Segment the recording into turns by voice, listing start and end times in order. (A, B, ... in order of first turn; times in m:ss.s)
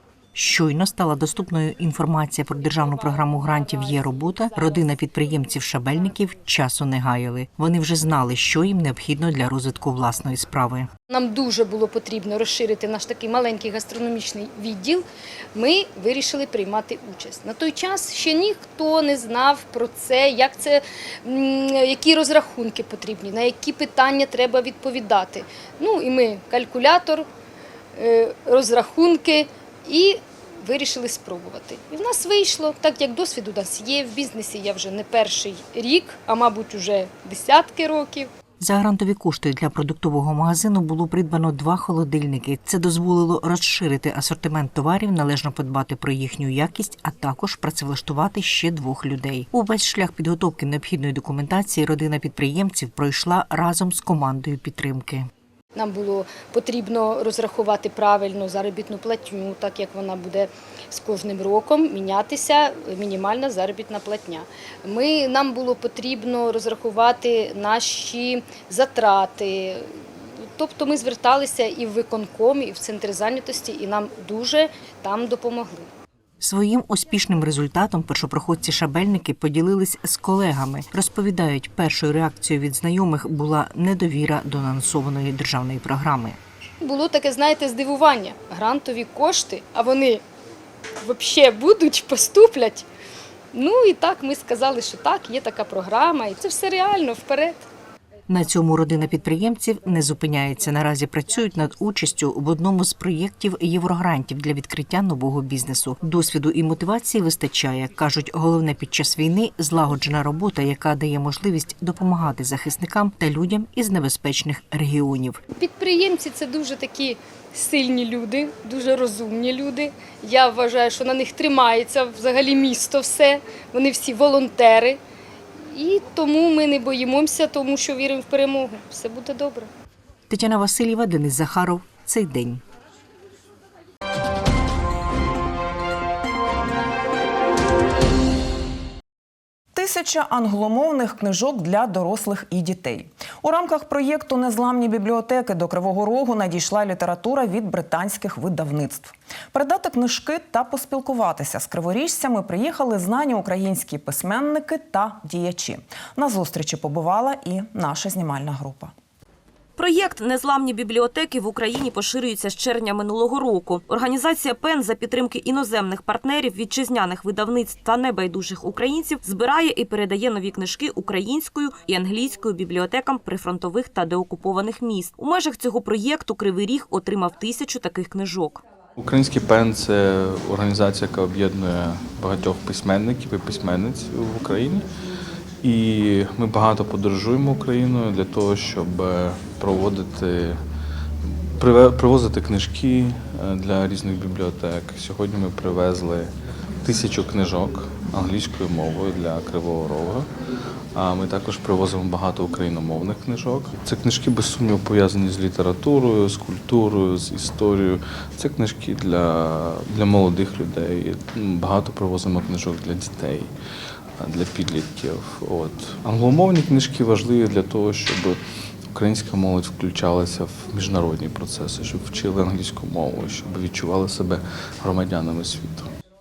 0:00.3-0:10.9 A
0:11.1-0:27.3 B
0:28.0-0:38.3 B
0:38.6-0:55.3 A
0:55.7-1:15.9 B
1:16.4-1:26.4 A
1:26.8-1:30.2 B
1:31.0-1:32.8 B
1:33.5-1:37.6 B
1:38.3-1:55.4 A
1:55.6-2:05.0 B
2:05.6-2:09.7 B
2:10.3-2:12.6 A
2:19.7-2:38.9 C
2:39.8-2:58.6 D
2:59.0-3:04.9 E
3:05.6-3:10.6 E
3:11.5-3:20.3 E
3:20.9-3:33.6 E
3:34.2-3:38.4 E
3:38.9-3:45.9 E